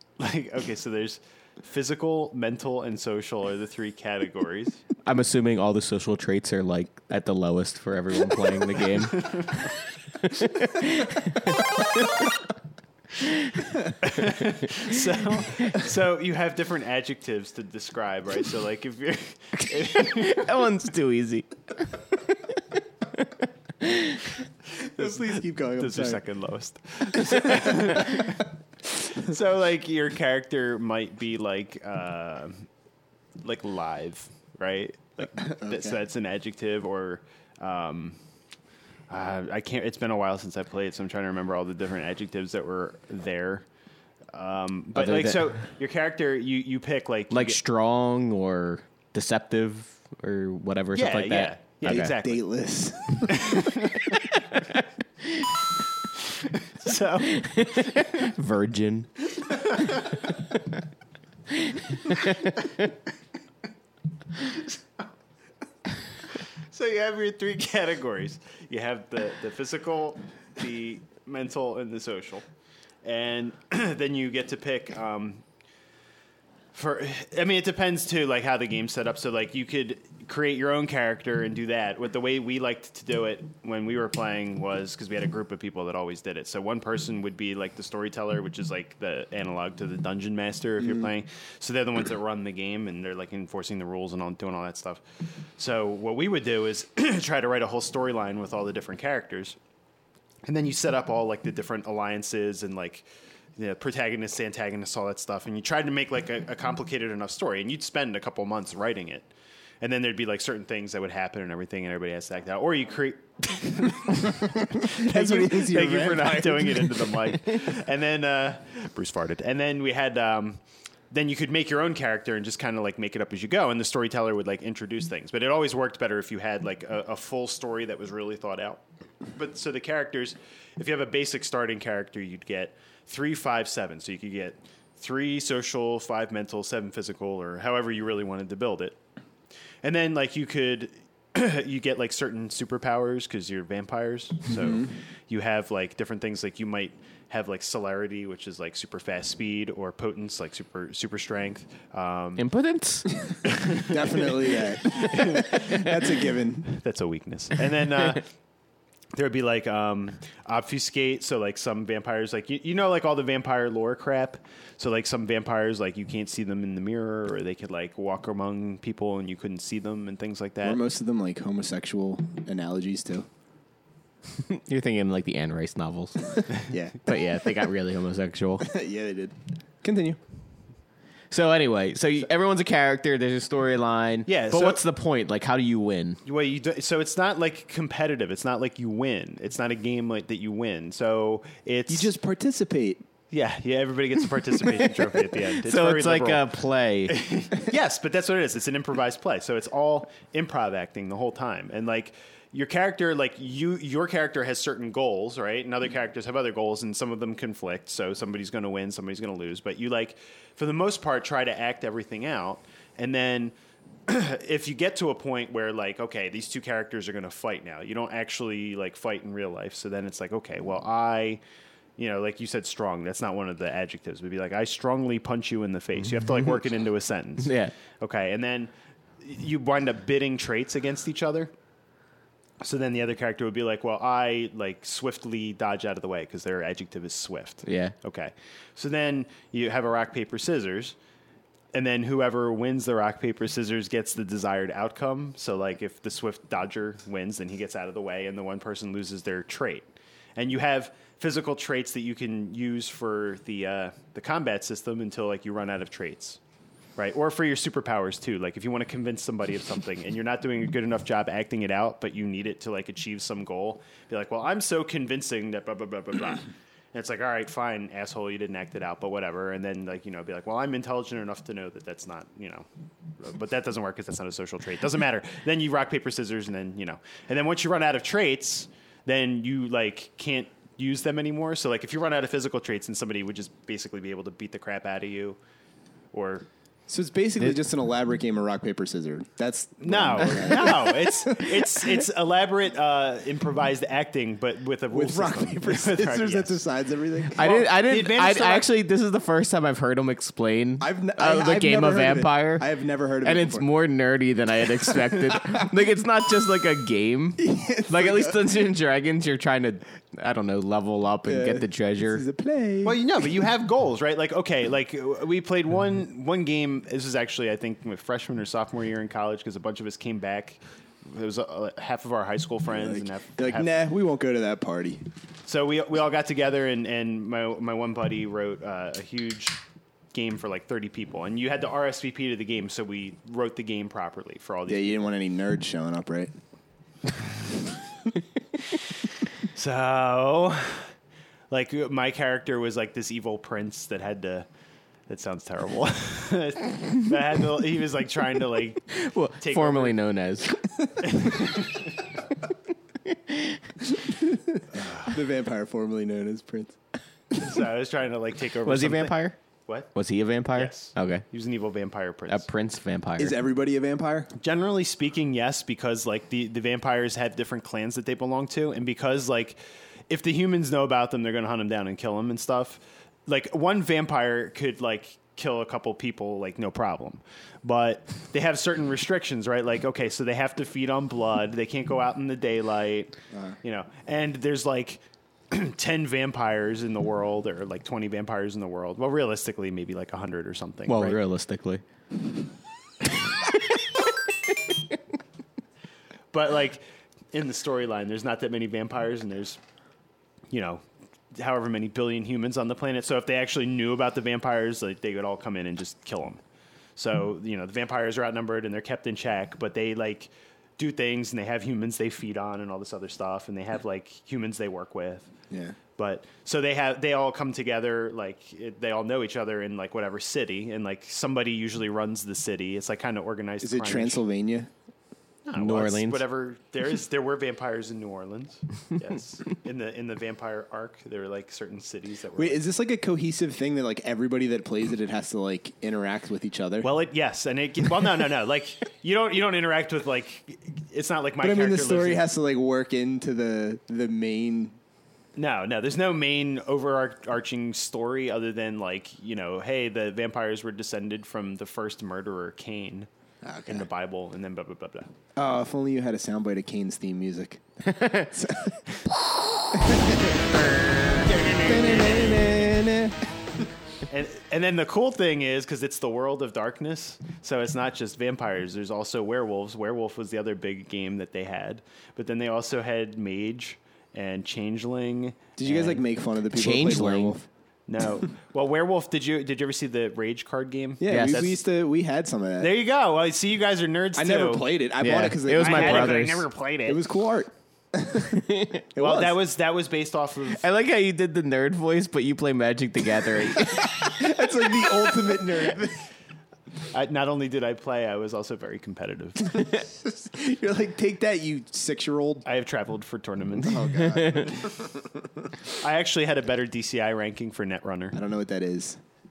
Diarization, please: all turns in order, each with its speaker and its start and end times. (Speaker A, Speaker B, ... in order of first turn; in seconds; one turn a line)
Speaker A: 0.2-4.8
Speaker B: 5.0-12.3
Speaker A: 9.1-9.6
Speaker B: 13.2-13.7
Speaker A: 14.0-20.5
Speaker B: 19.6-24.3
Speaker C: 24.8-26.2
Speaker A: 24.9-32.6
Speaker C: 27.2-28.2
Speaker A: 33.4-38.2
Speaker C: 35.4-36.0
Speaker A: 39.1-43.6
Speaker A: 44.3-47.6
Speaker B: 44.9-45.6
Speaker B: 47.3-52.1
Speaker A: 50.9-52.4
Speaker C: 51.8-53.7
Speaker A: 53.3-54.2
Speaker B: 54.3-54.8
Speaker A: 56.1-58.0
Speaker B: 57.2-60.8
Speaker A: 59.4-60.3
Speaker B: 61.5-62.9
Speaker A: 66.7-72.4
Speaker A: 73.0-75.4
Speaker A: 76.7-95.0
Speaker A: 95.6-99.5
Speaker A: 100.5-103.0
Speaker A: 103.6-109.3
Speaker A: 109.8-120.6
Speaker C: 114.3-117.2
Speaker A: 121.1-128.8
Speaker A: 129.3-139.0
Speaker A: 139.8-152.4
Speaker C: 144.5-144.9
Speaker B: 152.4-153.1
Speaker C: 153.3-156.7
Speaker A: 153.4-155.8
Speaker B: 155.0-155.5
Speaker A: 156.7-158.3
Speaker A: 159.1-170.8
Speaker C: 170.6-173.3
Speaker B: 174.4-176.5
Speaker C: 176.6-177.5
Speaker B: 177.0-178.7
Speaker C: 178.6-180.2
Speaker B: 181.3-186.2
Speaker A: 184.3-184.8
Speaker A: 186.2-192.1
Speaker C: 191.9-193.0
Speaker A: 193.3-196.5
Speaker B: 195.6-197.2
Speaker A: 197.1-213.5
Speaker A: 214.1-221.4
Speaker A: 222.0-231.5
Speaker B: 227.4-227.7
Speaker A: 232.6-240.9
Speaker B: 237.6-237.9
Speaker A: 241.7-256.4
Speaker A: 257.0-272.6
Speaker A: 273.2-285.4
Speaker A: 286.1-286.4
Speaker C: 286.9-292.0
Speaker A: 289.8-296.6
Speaker C: 294.9-297.6
Speaker B: 297.3-302.6
Speaker A: 297.4-298.7
Speaker C: 300.8-303.6
Speaker B: 303.2-312.2
Speaker C: 307.4-308.4
Speaker C: 311.2-313.0
Speaker A: 312.8-323.7
Speaker C: 322.7-325.0
Speaker A: 325.4-329.6
Speaker A: 330.1-335.0
Speaker C: 334.7-336.3
Speaker A: 339.4-340.9
Speaker A: 341.5-344.4
Speaker A: 345.1-350.0
Speaker B: 348.9-350.6
Speaker A: 351.0-352.0
Speaker B: 353.1-353.6
Speaker C: 354.0-356.8
Speaker A: 354.8-355.1
Speaker A: 357.4-359.9
Speaker B: 358.6-359.4
Speaker B: 359.9-361.2
Speaker A: 360.5-362.5
Speaker B: 362.3-363.4
Speaker C: 363.2-364.3
Speaker A: 364.4-369.6
Speaker A: 370.1-391.2
Speaker B: 390.9-391.8
Speaker A: 396.3-399.6
Speaker A: 400.5-400.8
Speaker A: 401.4-406.4
Speaker A: 406.9-415.3
Speaker C: 415.5-415.8
Speaker A: 416.0-424.2
Speaker C: 423.6-424.7
Speaker A: 425.4-432.6
Speaker B: 425.6-426.2
Speaker C: 432.4-436.9
Speaker A: 436.8-442.2
Speaker C: 441.4-444.7
Speaker A: 445.4-453.1
Speaker C: 453.4-453.9
Speaker A: 453.6-455.1
Speaker C: 455.4-459.0
Speaker B: 458.0-458.2
Speaker C: 459.7-460.8
Speaker B: 460.8-461.1
Speaker A: 461.1-462.8
Speaker C: 461.6-463.6
Speaker A: 464.1-476.0
Speaker C: 475.6-477.5
Speaker B: 476.5-477.4
Speaker A: 477.9-481.6
Speaker C: 481.0-482.7
Speaker B: 481.1-481.4
Speaker A: 482.6-484.7
Speaker C: 484.1-486.3
Speaker B: 485.0-486.4
Speaker A: 485.6-487.0
Speaker C: 486.9-489.4
Speaker B: 488.3-488.8
Speaker A: 489.0-490.6
Speaker B: 490.6-494.3
Speaker C: 493.6-496.1
Speaker A: 496.9-499.6
Speaker C: 499.5-502.4
Speaker A: 502.4-504.3
Speaker C: 503.6-505.5
Speaker B: 503.9-504.6
Speaker A: 505.7-508.2
Speaker C: 508.1-509.0